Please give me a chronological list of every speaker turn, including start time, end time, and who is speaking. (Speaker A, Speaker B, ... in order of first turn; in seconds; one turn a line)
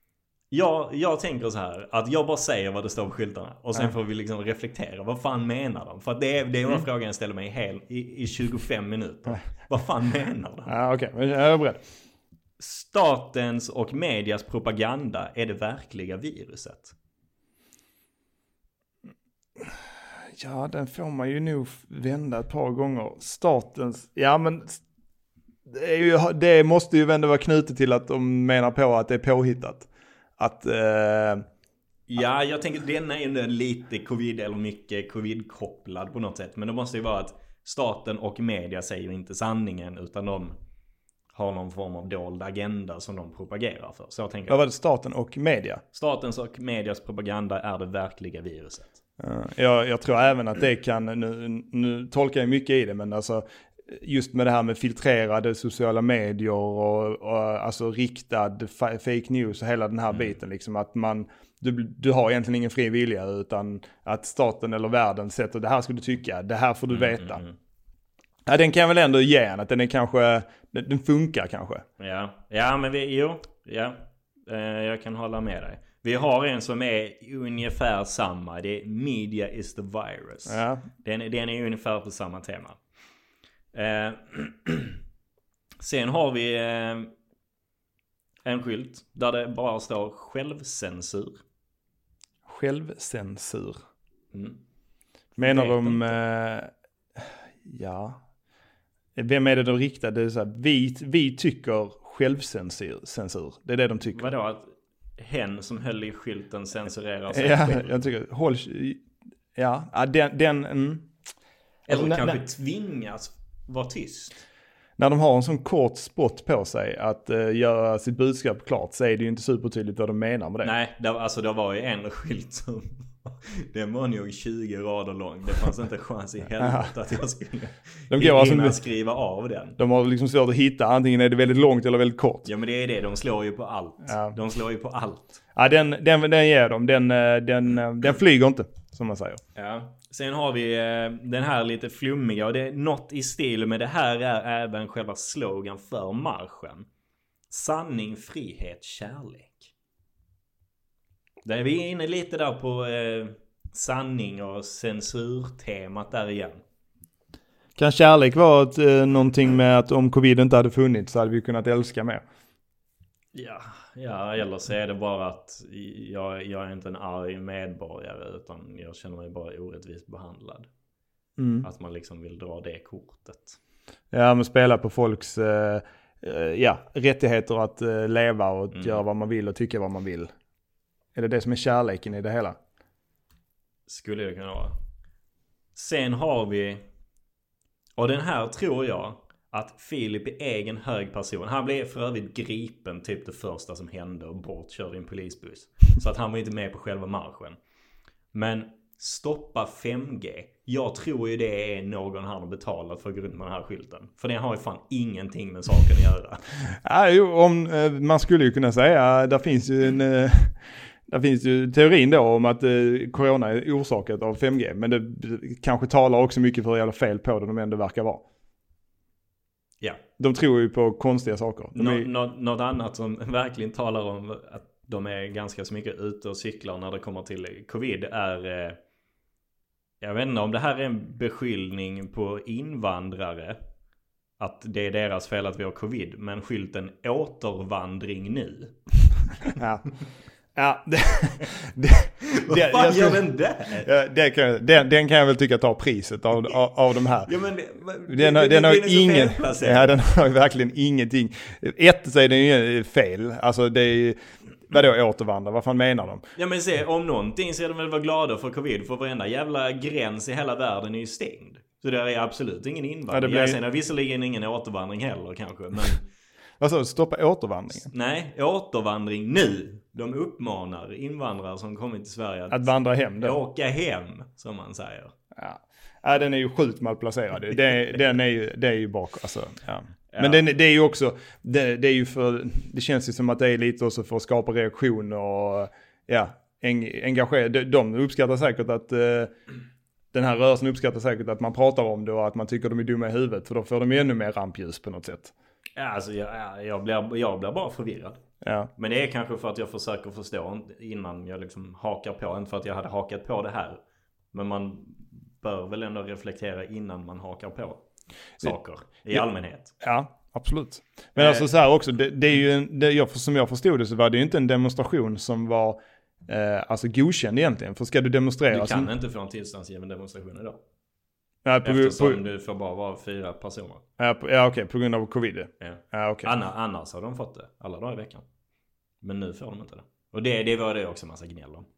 Speaker A: 0.5-10.7
Speaker B: 10.7-11.8
Speaker A: 12.6-16.9
Speaker B: 20.3-24.8
Speaker B: 25.7-31.4
Speaker A: 32.1-40.5
Speaker A: 41.3-44.6
Speaker B: 44.5-45.8
Speaker A: 45.9-48.9
Speaker B: 49.2-67.4
Speaker A: 60.1-60.4
Speaker A: 66.9-67.5
Speaker B: 68.5-71.8
Speaker A: 72.0-82.8
Speaker B: 80.5-80.8
Speaker A: 83.7-85.0
Speaker A: 85.8-87.1
Speaker A: 88.4-91.4
Speaker B: 92.5-93.8
Speaker A: 94.3-94.6
Speaker A: 95.4-96.2
Speaker B: 95.4-96.7
Speaker B: 97.6-98.2
Speaker B: 99.2-104.3
Speaker A: 104.1-108.0
Speaker B: 107.3-109.0
Speaker B: 109.5-111.1
Speaker A: 111.9-114.4
Speaker B: 111.9-112.4
Speaker B: 115.0-120.7
Speaker A: 120.6-129.8
Speaker B: 126.6-126.9
Speaker B: 128.1-128.8
Speaker B: 129.8-132.5
Speaker A: 132.4-135.4
Speaker B: 134.1-134.3
Speaker B: 135.6-139.4
Speaker A: 139.5-146.9
Speaker A: 147.5-149.7
Speaker A: 151.4-156.6
Speaker B: 157.8-162.2
Speaker A: 163.3-170.7
Speaker B: 171.4-171.7
Speaker A: 171.6-173.6
Speaker B: 174.1-180.3
Speaker A: 178.7-179.0
Speaker B: 181.1-182.6
Speaker A: 183.9-184.8
Speaker A: 185.7-186.8
Speaker A: 188.0-197.6
Speaker A: 198.3-206.4
Speaker B: 206.8-218.2
Speaker B: 220.2-222.1
Speaker A: 221.7-228.8
Speaker A: 230.0-233.6
Speaker A: 234.4-238.8
Speaker B: 239.5-239.9
Speaker B: 240.5-247.3
Speaker A: 242.4-243.9
Speaker A: 247.2-249.9
Speaker B: 248.1-256.2
Speaker A: 256.4-266.0
Speaker B: 263.1-263.6
Speaker B: 266.6-267.9
Speaker A: 267.9-272.7
Speaker B: 272.5-273.4
Speaker A: 273.2-275.1
Speaker B: 275.3-289.3
Speaker A: 280.1-280.4
Speaker B: 290.1-295.3
Speaker A: 295.8-298.2
Speaker B: 298.4-298.7
Speaker A: 298.8-303.8
Speaker A: 304.3-307.8
Speaker A: 308.4-309.7
Speaker B: 309.8-318.9
Speaker A: 311.1-311.5
Speaker A: 318.5-320.6
Speaker B: 321.4-322.2
Speaker A: 321.6-323.8
Speaker B: 324.0-326.3
Speaker A: 325.6-328.2
Speaker A: 329.0-331.7